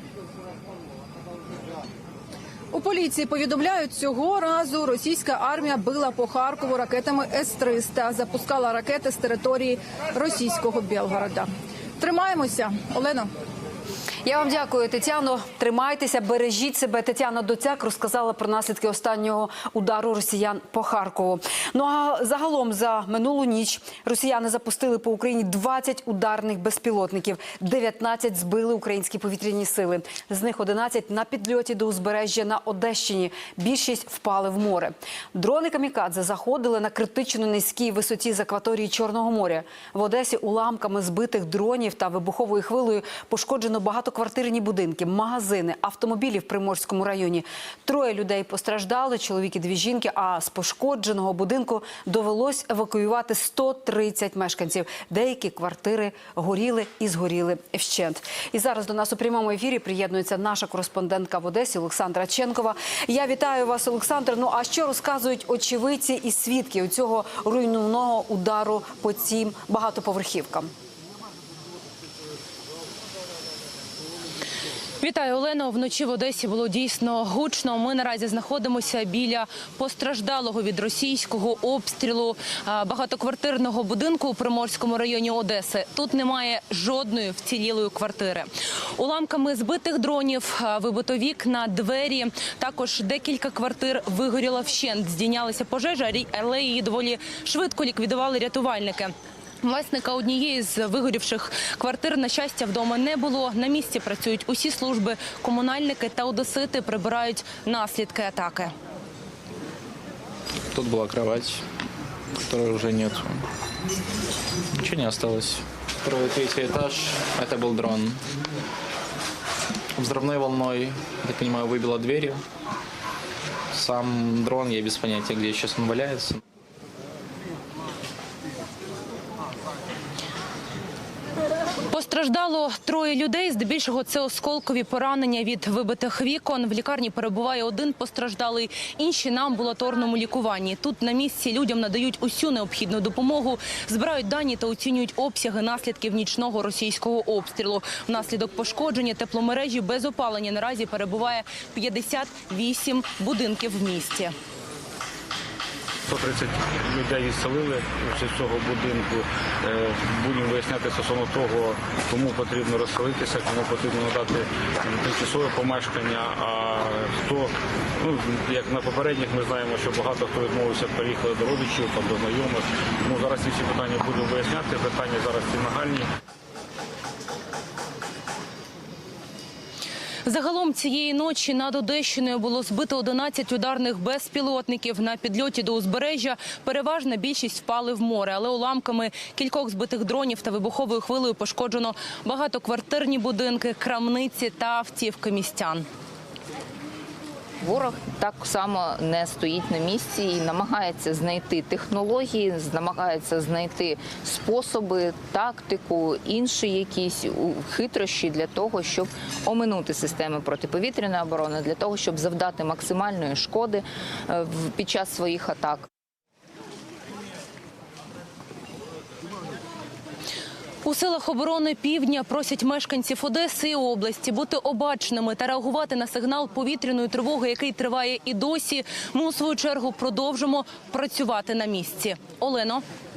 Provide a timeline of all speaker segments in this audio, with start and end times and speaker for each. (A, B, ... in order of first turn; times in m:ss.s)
0:02.7-0:13.3 A
0:14.2-1:10.7 B
1:15.0-1:48.7 C
1:50.7-1:51.6 D
1:52.4-1:53.5 D
1:54.8-1:58.2 D
2:00.0-2:02.4 D
2:03.7-2:06.4 D
2:11.9-2:34.3 C
2:36.1-2:56.1 E
3:00.2-3:15.9 C
3:17.6-3:35.9 F
3:40.8-3:52.8 C